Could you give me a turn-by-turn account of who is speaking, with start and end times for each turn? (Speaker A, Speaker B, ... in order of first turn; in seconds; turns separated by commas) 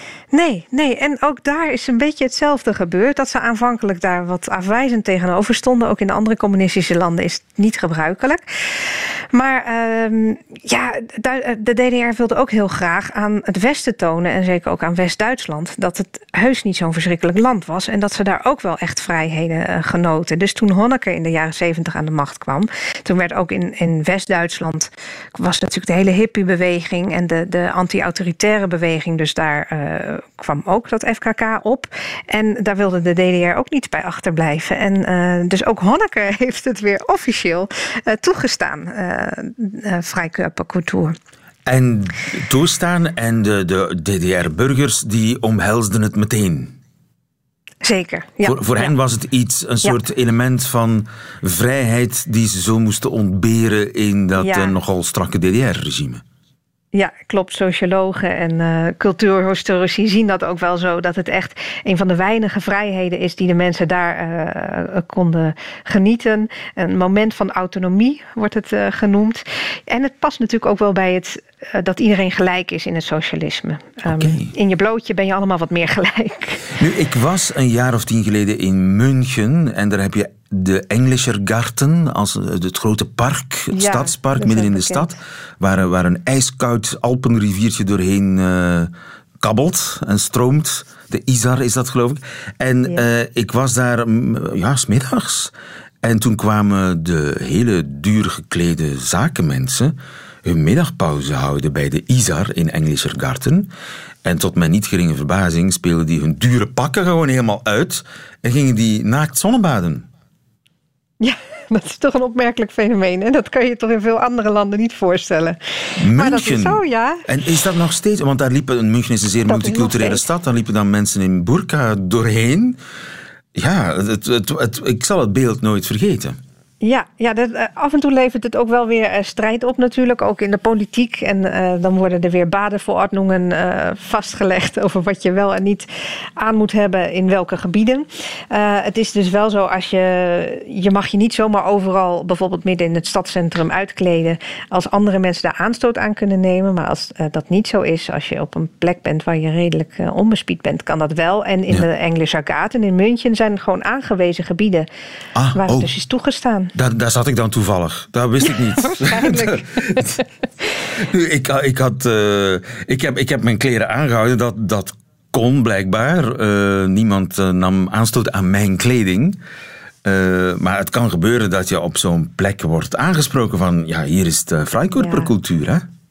Speaker A: 0.3-41.1, Speaker B: 41.7-46.8, Speaker A: 47.8-48.9, Speaker B: 48.4-56.2, Speaker A: 54.4-54.8, Speaker A: 56.9-76.6, Speaker B: 74.0-74.5, Speaker B: 76.8-95.5, Speaker A: 83.7-85.1, Speaker B: 96.0-103.7, Speaker B: 104.2-110.1, Speaker A: 111.2-117.2, Speaker B: 116.0-122.8, Speaker A: 119.5-120.2, Speaker B: 123.5-126.4, Speaker A: 126.8-135.9, Speaker A: 136.4-154.9, Speaker B: 155.3-155.9, Speaker A: 155.6-156.7, Speaker B: 156.7-160.2, Speaker A: 158.5-160.2, Speaker B: 161.0-169.4, Speaker B: 170.0-175.8, Speaker A: 174.9-175.3